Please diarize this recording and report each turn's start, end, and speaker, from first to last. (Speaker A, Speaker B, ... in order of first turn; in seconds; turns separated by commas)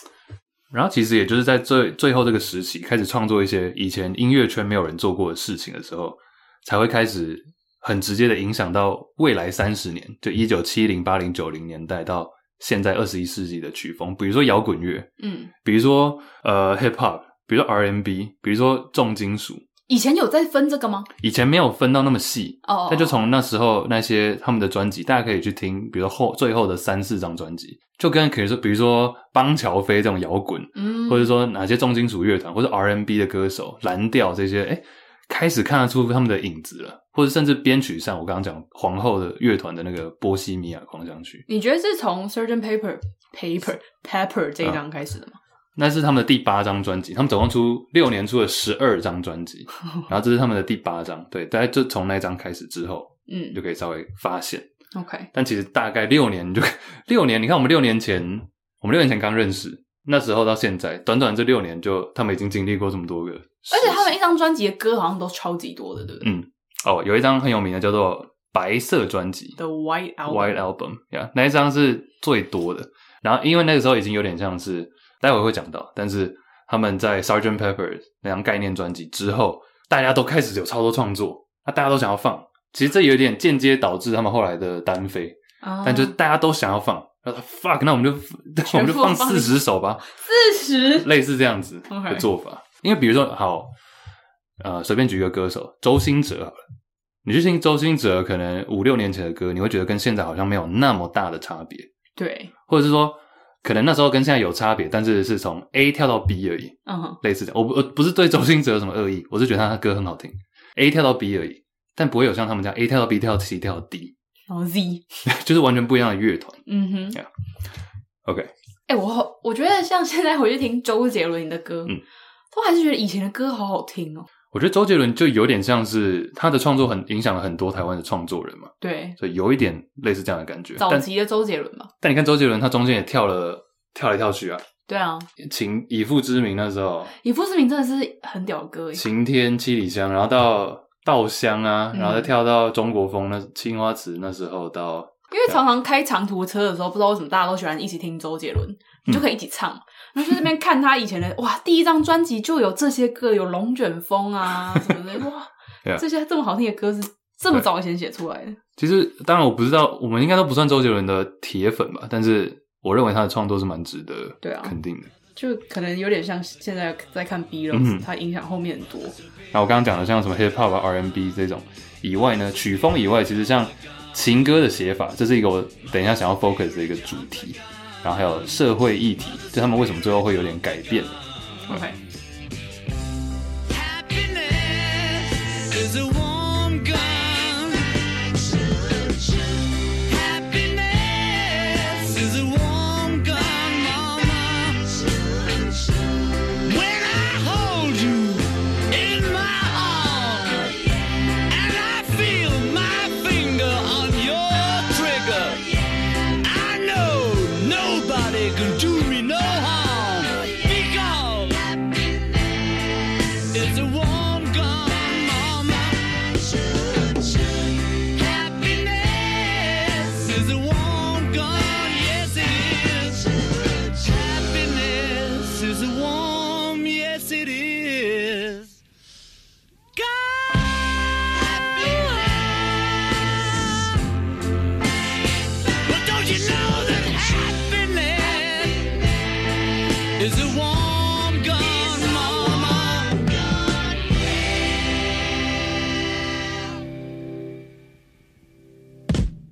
Speaker A: 0.7-15.1, Speaker B: 15.2-15.5, Speaker A: 15.6-19.6, Speaker B: 19.9-21.1, Speaker A: 21.2-41.4, Speaker B: 22.6-23.2, Speaker B: 30.8-31.3, Speaker B: 41.5-45.4, Speaker A: 45.8-54.7, Speaker B: 53.3-53.6, Speaker B: 54.9-55.3, Speaker A: 55.3-64.1, Speaker B: 63.7-66.3, Speaker A: 66.2-69.6, Speaker B: 69.6-70.6, Speaker A: 70.2-90.1, Speaker B: 85.6-86.1, Speaker B: 88.7-91.1, Speaker A: 90.9-93.7, Speaker B: 91.9-92.3, Speaker A: 94.6-96.6, Speaker A: 97.2-101.9, Speaker B: 102.2-102.5, Speaker A: 102.7-114.1, Speaker B: 106.8-107.2, Speaker B: 114.5-115.1, Speaker A: 115.2-117.3, Speaker B: 116.7-117.2, Speaker A: 118.2-118.5, Speaker B: 118.9-122.0, Speaker B: 122.5-124.3, Speaker A: 124.5-131.1, Speaker B: 128.8-129.2, Speaker B: 130.8-131.9, Speaker A: 132.0-134.6, Speaker B: 134.9-135.3, Speaker A: 135.4-137.1, Speaker B: 137.1-139.0, Speaker A: 138.9-145.6, Speaker B: 141.9-142.3, Speaker B: 145.3-158.6, Speaker A: 158.8-165.1, Speaker B: 164.4-164.8, Speaker B: 165.3-169.2, Speaker A: 167.7-168.1, Speaker A: 169.5-181.2, Speaker B: 181.7-182.0, Speaker C: 183.7-189.1, Speaker C: 189.9-195.9, Speaker C: 196.6-212.2, Speaker C: 213.4-228.8, Speaker C: 229.9-233.9, Speaker C: 235.7-239.1, Speaker C: 240.2-244.2